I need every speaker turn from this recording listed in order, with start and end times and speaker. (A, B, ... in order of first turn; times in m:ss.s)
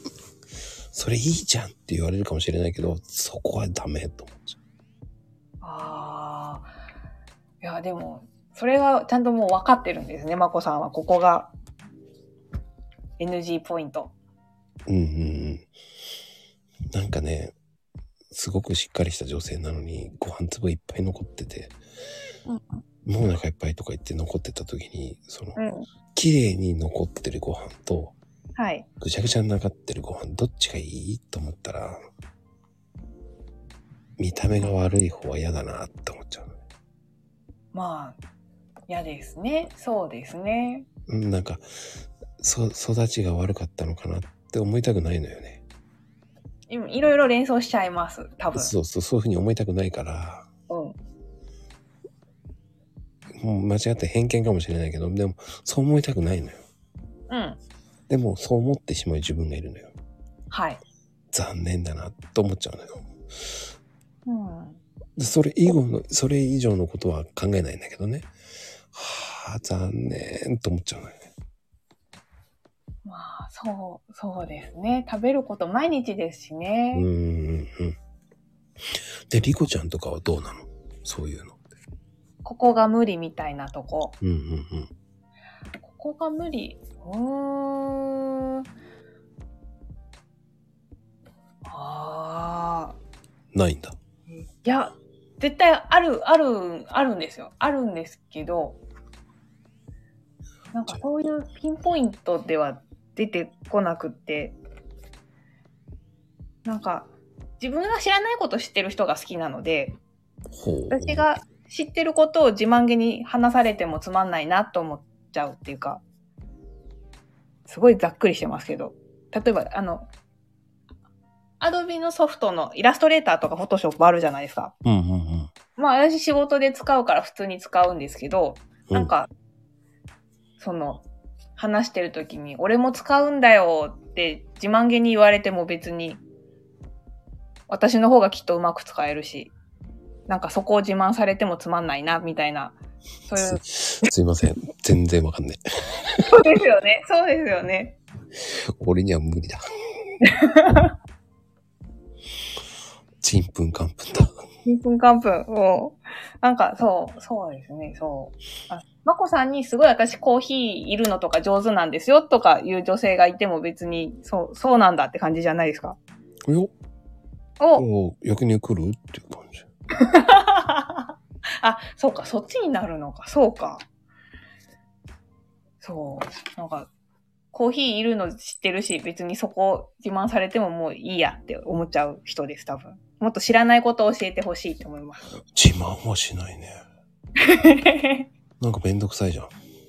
0:00.9-0:04.6 A
0:05.6-0:06.7 B
0:07.6-0:11.5 B
0:13.2-0:14.1 B
0:14.9-0:15.7 A
0:16.9-0:17.5 A
0:18.3-0:21.8 A
0:23.1-0:25.6 A
0:25.6-0:25.9 B
0:26.1-0:28.2 A
0:28.6-0:28.9 B
0:29.0-0:32.0 A
0:34.2-0:36.6 A
0:37.7-0:38.2 B
0:38.9-0:40.9 B
0:41.1-0:41.6 A
0:42.4-0:45.6 A
0:46.7-0:48.7 B
0:48.5-0:50.5 A
0:50.7-0:51.0 B
0:53.4-0:56.6 A
0:57.3-0:57.6 B
0:58.1-0:59.9 A
1:00.5-1:00.8 B
1:01.3-1:03.0 A
1:04.3-1:04.8 B
1:05.2-1:08.3 A
1:08.9-1:11.2 A
1:13.0-1:17.0 B
1:16.9-1:18.0 A
1:18.9-1:21.6 A
1:22.4-1:24.1 B
1:24.2-1:24.9 A
1:25.8-1:28.6 B
1:31.7-1:33.0 B
1:33.5-1:34.0 A
1:34.3-1:38.8 B
1:40.7-1:44.6 B
1:46.6-1:50.0 B
1:50.6-1:51.3 A
1:50.9-1:56.0 B
1:57.7-2:00.1 B
2:01.6-2:04.7 B
2:04.8-2:05.5 A
2:05.8-2:09.3 B
2:10.6-2:11.0 B
2:11.6-2:16.2 B
2:17.7-2:19.5 B
2:20.3-2:23.6 B
2:23.4-2:26.3 A
2:26.3-2:28.0 B
2:28.8-2:29.6 A
2:30.2-2:30.9 B
2:33.2-2:34.3 A
2:34.7-2:46.0 B
2:47.6-2:47.9 B
2:47.8-2:49.6 A
2:50.0-2:53.8 B
2:55.8-2:56.9 B
2:57.5-3:05.3 B
3:05.6-3:06.8 A
3:07.4-3:08.3 B
3:08.6-3:09.5 A